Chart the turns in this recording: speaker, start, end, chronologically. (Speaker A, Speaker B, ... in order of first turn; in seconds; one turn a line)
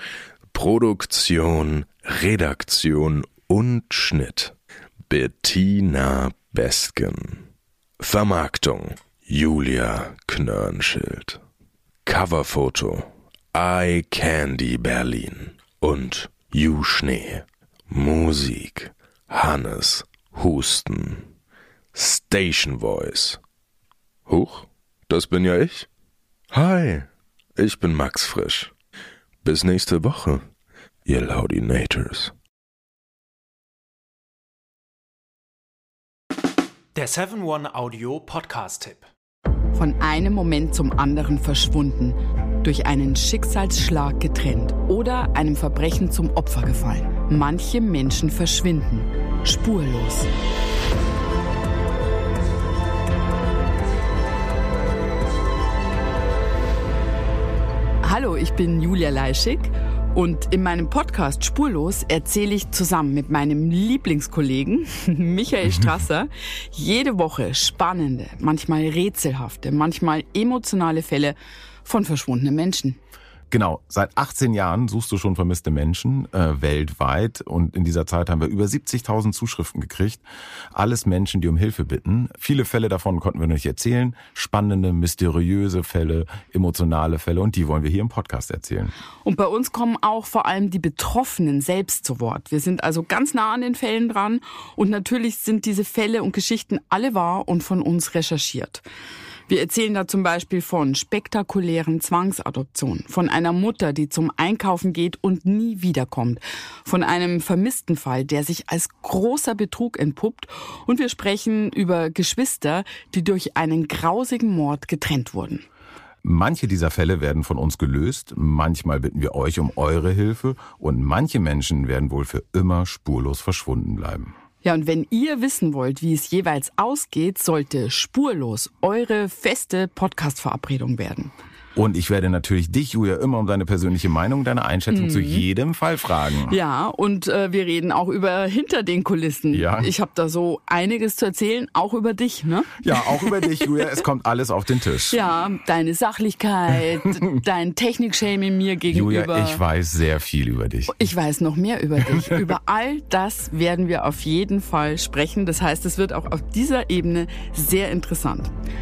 Speaker A: 0.5-4.5
Speaker A: 5.1-7.5
Speaker A: 8.0-11.4
Speaker A: 12.1-21.3
Speaker A: 21.9-23.4
Speaker A: 24.3-25.9
Speaker A: 26.5-28.7
Speaker A: 29.4-30.4
Speaker A: 31.1-32.3
Speaker B: 36.9-39.1
Speaker C: 39.7-50.3
Speaker C: 58.0-73.0
Speaker D: 73.5-88.9
Speaker C: 89.2-98.8
Speaker C: 99.5-115.6
Speaker D: 116.2-124.3
Speaker C: 124.6-131.3
Speaker D: 131.8-136.6
Speaker C: 134.9-135.4
Speaker C: 136.5-143.5
Speaker D: 139.5-139.9
Speaker D: 142.8-145.2
Speaker C: 145.1-149.6
Speaker D: 148.9-151.0
Speaker C: 150.9-158.5